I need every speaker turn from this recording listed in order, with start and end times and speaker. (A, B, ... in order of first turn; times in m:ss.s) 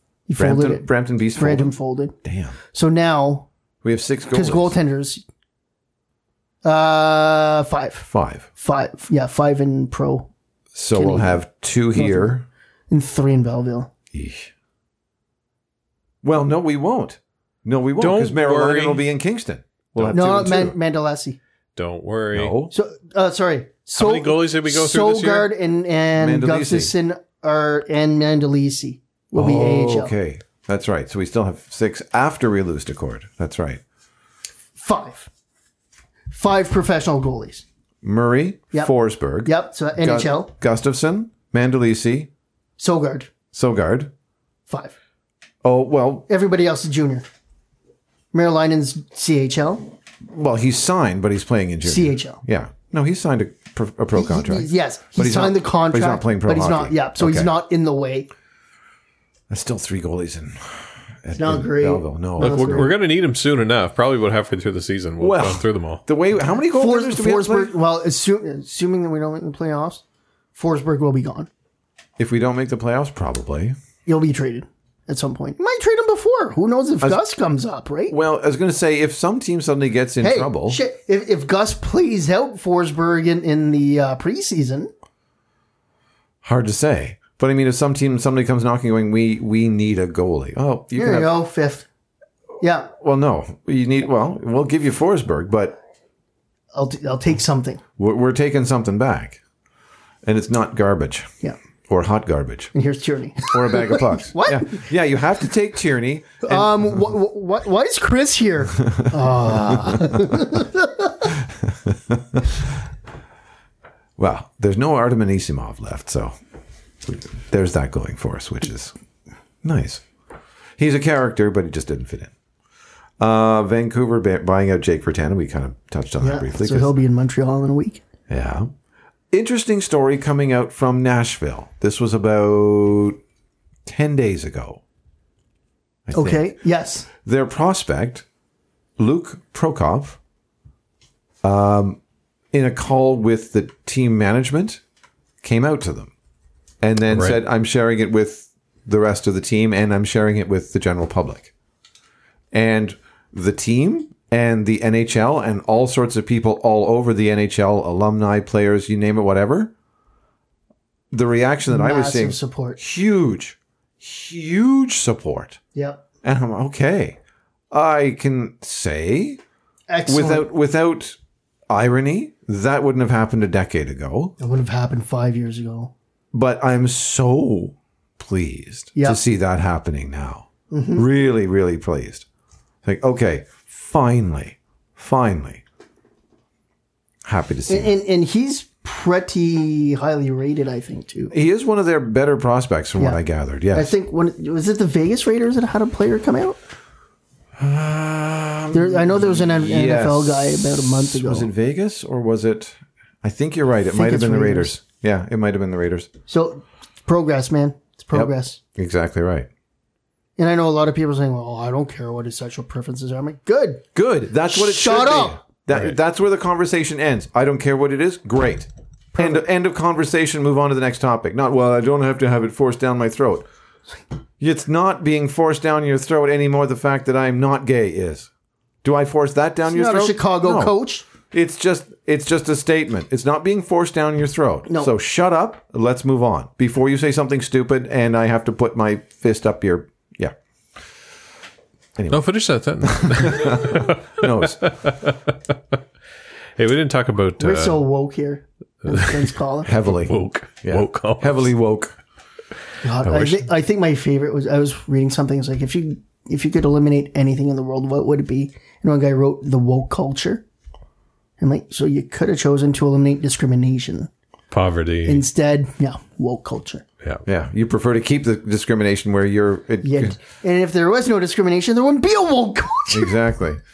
0:00.3-0:02.1 A
0:00.4-0:02.6 B
0:02.7-0:03.5 A
0:03.8-0:04.8 B
0:04.3-0:05.2 A
0:06.6-0:10.3 A
0:08.1-0:08.5 B
0:10.7-0:12.4 B
0:10.9-0:12.3 A
0:12.9-0:13.9 A
0:14.1-0:14.5 B
0:16.2-0:20.8 B
0:18.0-0:19.0 C
0:19.9-0:20.5 C
0:20.1-0:21.4 A
0:21.8-0:22.6 C
0:22.3-0:22.7 B
0:22.7-0:30.1 A
0:23.9-0:25.5 C
0:26.2-0:26.9 B
0:29.3-0:33.8 B
0:34.8-0:35.3 A
0:36.3-0:37.6 A
0:38.0-0:42.3 B
0:38.7-0:40.5 A
0:42.8-0:43.3 A
0:43.5-0:44.1 B
0:44.7-0:45.0 A
0:45.6-0:46.3 B
0:46.3-0:47.2 A
0:48.3-0:49.9 A
0:50.2-0:57.5 B
0:51.8-0:52.4 A
0:54.1-0:58.3 A
0:59.5-1:02.9 B
1:01.3-1:02.9 A
1:02.4-1:06.0 C
1:05.2-1:07.7 B
1:06.7-1:10.0 A
1:10.5-1:11.5 A
1:12.2-1:13.8 B
1:14.0-1:18.1 A
1:18.1-1:20.8 B
1:20.2-1:24.9 A
1:26.4-1:31.4 B
1:30.9-1:31.8 A
1:32.6-1:32.9 A
1:32.9-1:35.8 B
1:36.7-1:37.8 A
1:38.0-1:39.4 B
1:40.2-1:41.3 B
1:41.9-1:42.7 B
1:42.7-1:44.9 A
1:43.5-1:46.8 B
1:46.4-1:51.3 A
1:49.7-1:50.2 B
1:51.6-1:52.6 B
1:54.2-1:56.4 B
1:57.0-1:58.9 B
1:59.6-2:00.0 B
2:00.8-2:02.3 B
2:03.2-2:07.0 B
2:06.2-2:08.0 A
2:08.3-2:08.7 B
2:09.3-2:13.2 B
2:13.8-2:14.8 B
2:16.1-2:16.6 B
2:16.1-2:17.1 A
2:17.2-2:18.2 B
2:19.0-2:20.2 B
2:21.4-2:22.0 B
2:22.5-2:24.8 B
2:25.4-2:26.1 B
2:26.8-2:31.5 B
2:27.1-2:27.4 C
2:32.5-2:39.7 B
2:41.1-2:45.6 B
2:41.7-2:42.8 A
2:45.7-2:46.0 A
2:46.2-2:47.2 B
2:47.7-2:49.4 B
2:49.9-2:50.5 A
2:50.1-2:51.2 B
2:51.7-2:54.3 B
2:54.4-2:55.9 A
2:56.3-3:02.2 B
2:58.9-2:59.2 A
3:00.7-3:01.0 A
3:02.8-3:05.6 B
3:07.2-3:07.9 B
3:07.7-3:11.3 A
3:11.3-3:13.9 B
3:13.7-3:16.6 A
3:17.6-3:26.1 B
3:18.7-3:21.5 A
3:23.9-3:24.7 A
3:26.3-3:28.6 A
3:28.1-3:29.5 B
3:30.4-3:33.8 A
3:33.9-3:43.4 B
3:34.5-3:35.4 A
3:39.2-3:39.4 A
3:44.4-3:48.3 B
3:48.8-4:00.3 B
3:49.7-3:51.0 A
3:54.7-3:54.9 A
4:02.0-4:02.3 B
4:02.1-4:05.2 C
4:02.8-4:04.7 B
4:06.6-4:07.8 C
4:07.4-4:09.7 A
4:08.9-4:09.3 C
4:09.6-4:11.9 B
4:10.0-4:11.5 C
4:12.8-4:20.4 A
4:13.0-4:13.4 C
4:21.4-4:24.1 A
4:24.5-4:25.2 C
4:25.0-4:26.8 A
4:27.2-4:30.2 B
4:29.8-4:33.2 A
4:32.9-4:33.6 B